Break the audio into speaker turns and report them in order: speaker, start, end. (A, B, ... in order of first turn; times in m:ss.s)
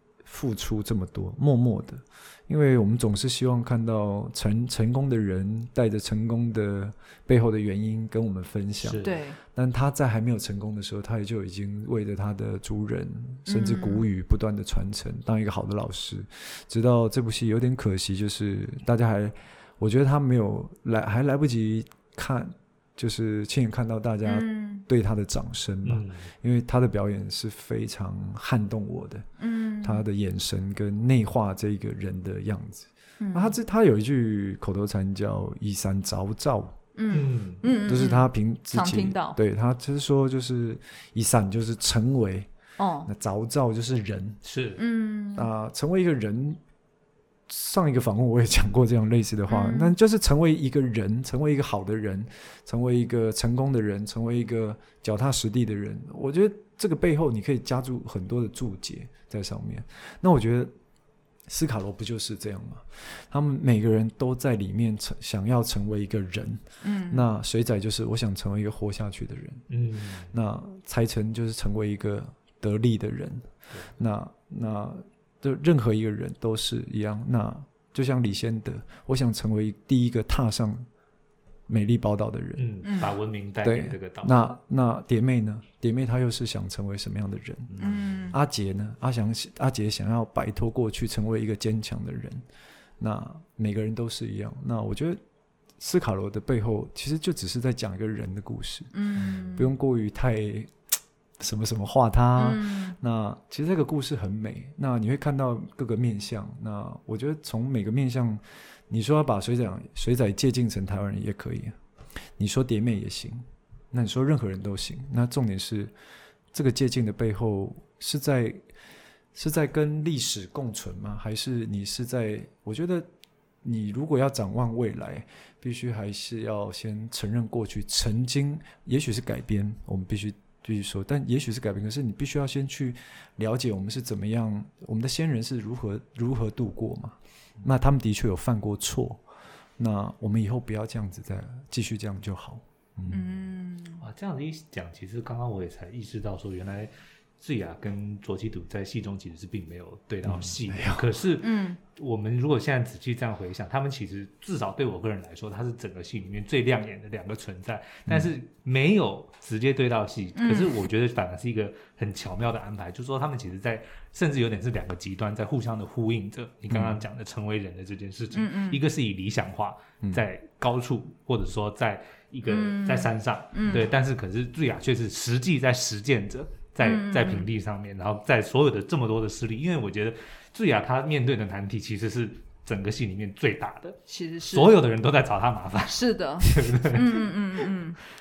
0:00.2-0:29.3 A
0:08.8-0:09.2 B
0:09.0-0:09.4 C
0:13.5-0:14.0 C
0:24.2-0:24.8 C
0:25.8-0:26.3 B
0:29.4-0:30.0 C
0:29.8-0:36.8 A
0:33.2-0:33.6 C
0:37.0-0:39.4 C
0:37.1-0:37.6 B
0:37.8-0:42.5 A
0:42.8-0:43.1 C
0:43.0-0:44.4 A
0:44.4-0:44.8 B
0:44.8-0:45.5 C
0:45.3-0:46.6 A
0:47.5-1:00.7 A
0:49.5-0:49.9 C
1:01.5-1:09.6 A
1:06.8-1:07.3 C
1:09.7-1:10.3 B
1:10.3-1:20.9 A
1:21.7-1:22.7 A
1:22.6-1:24.5 B
1:22.8-1:23.1 C
1:23.6-1:32.4 A
1:27.8-1:28.4 C
1:33.0-1:35.2 A
1:35.8-1:38.9 A
1:38.9-1:39.7 C
1:39.5-1:40.7 A
1:41.4-1:51.8 A
1:42.4-1:43.0 C
1:52.4-1:55.9 A
1:56.5-1:58.6 A
1:59.3-2:03.1 A
2:03.6-2:19.2 A
2:19.8-2:23.2 A
2:23.1-2:24.0 C
2:24.0-3:04.0 B
2:30.2-2:31.1 A
2:31.4-2:31.8 C
2:40.4-2:40.7 C
2:46.7-2:47.0 A
2:48.3-2:48.8 C
2:52.5-2:53.9 C
2:56.8-2:57.5 C
3:04.1-3:04.8 C
3:04.5-3:07.2 B
3:05.9-3:08.0 C